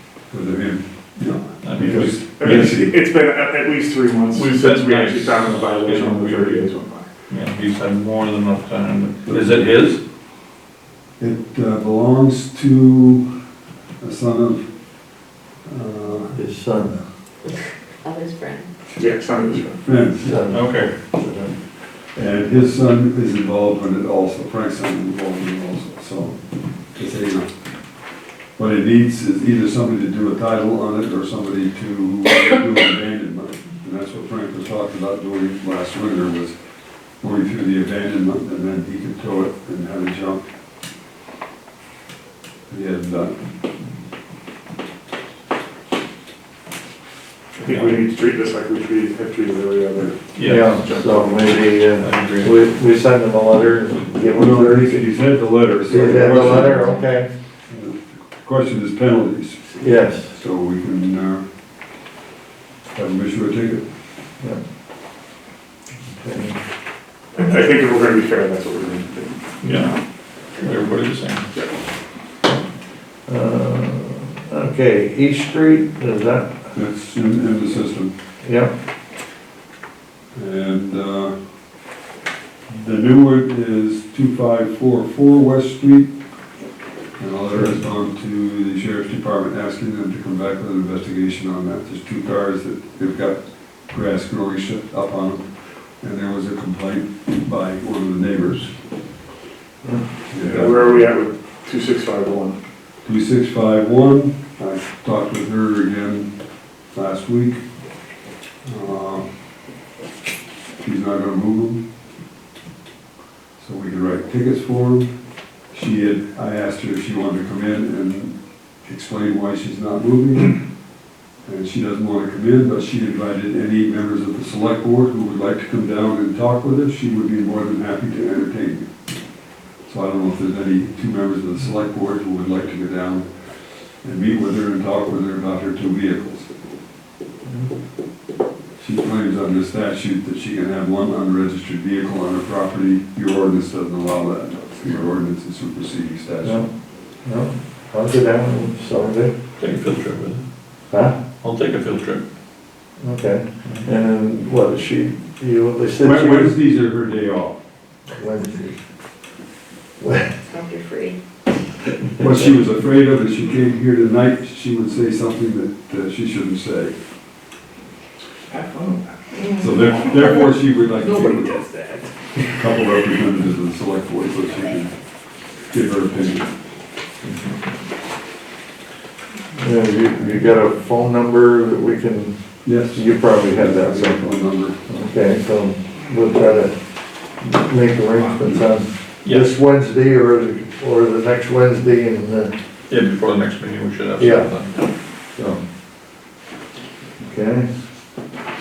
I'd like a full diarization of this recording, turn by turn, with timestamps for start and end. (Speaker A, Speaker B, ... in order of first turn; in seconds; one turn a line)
Speaker A: 0.3-3.0
Speaker B: 1.6-2.5
Speaker C: 2.4-7.1
Speaker B: 4.3-6.7
Speaker B: 7.3-10.0
Speaker A: 9.3-9.7
Speaker A: 11.2-13.3
Speaker A: 14.0-14.6
Speaker A: 15.6-16.3
Speaker D: 16.3-17.0
Speaker E: 17.5-18.7
Speaker C: 18.9-19.8
Speaker A: 19.8-20.5
Speaker D: 20.2-21.5
Speaker B: 20.5-20.9
Speaker A: 22.1-26.4
Speaker A: 26.9-27.5
Speaker A: 28.6-36.6
Speaker A: 37.2-40.4
Speaker A: 42.7-43.4
Speaker C: 47.6-50.2
Speaker A: 47.7-48.0
Speaker B: 50.3-52.6
Speaker D: 50.4-55.1
Speaker A: 54.3-56.9
Speaker D: 55.9-57.3
Speaker A: 57.7-61.5
Speaker D: 59.8-60.3
Speaker A: 63.0-63.9
Speaker D: 66.0-66.6
Speaker C: 67.3-69.4
Speaker B: 69.6-70.0
Speaker B: 70.6-71.5
Speaker D: 73.3-76.6
Speaker A: 76.7-78.1
Speaker D: 78.4-78.7
Speaker A: 80.3-81.3
Speaker A: 82.7-86.1
Speaker A: 87.2-95.5
Speaker A: 96.0-98.7
Speaker A: 100.3-101.0
Speaker C: 100.4-102.6
Speaker A: 103.0-106.3
Speaker A: 106.9-107.6
Speaker A: 108.7-109.3
Speaker A: 110.8-111.8
Speaker A: 113.6-115.1
Speaker A: 115.7-120.6
Speaker A: 121.5-128.9
Speaker A: 129.8-133.3
Speaker A: 134.0-136.5
Speaker A: 138.8-146.6
Speaker D: 147.2-149.3
Speaker B: 149.6-150.5
Speaker D: 150.9-151.2
Speaker B: 151.4-152.2
Speaker D: 153.0-156.6
Speaker A: 156.0-157.6
Speaker D: 158.1-158.8
Speaker D: 160.0-160.3
Speaker E: 160.5-161.2
Speaker A: 162.2-166.9
Speaker C: 168.2-169.4
Speaker A: 169.6-171.7
Speaker A: 172.4-174.9
Speaker A: 175.7-176.5
Speaker D: 179.6-182.3
Speaker A: 182.7-184.8
Speaker D: 182.9-184.2
Speaker D: 184.8-186.7
Speaker D: 187.4-192.5
Speaker A: 188.4-188.7
Speaker B: 189.2-189.5
Speaker B: 192.9-194.8
Speaker D: 194.2-194.5
Speaker D: 195.3-195.6
Speaker D: 197.2-197.7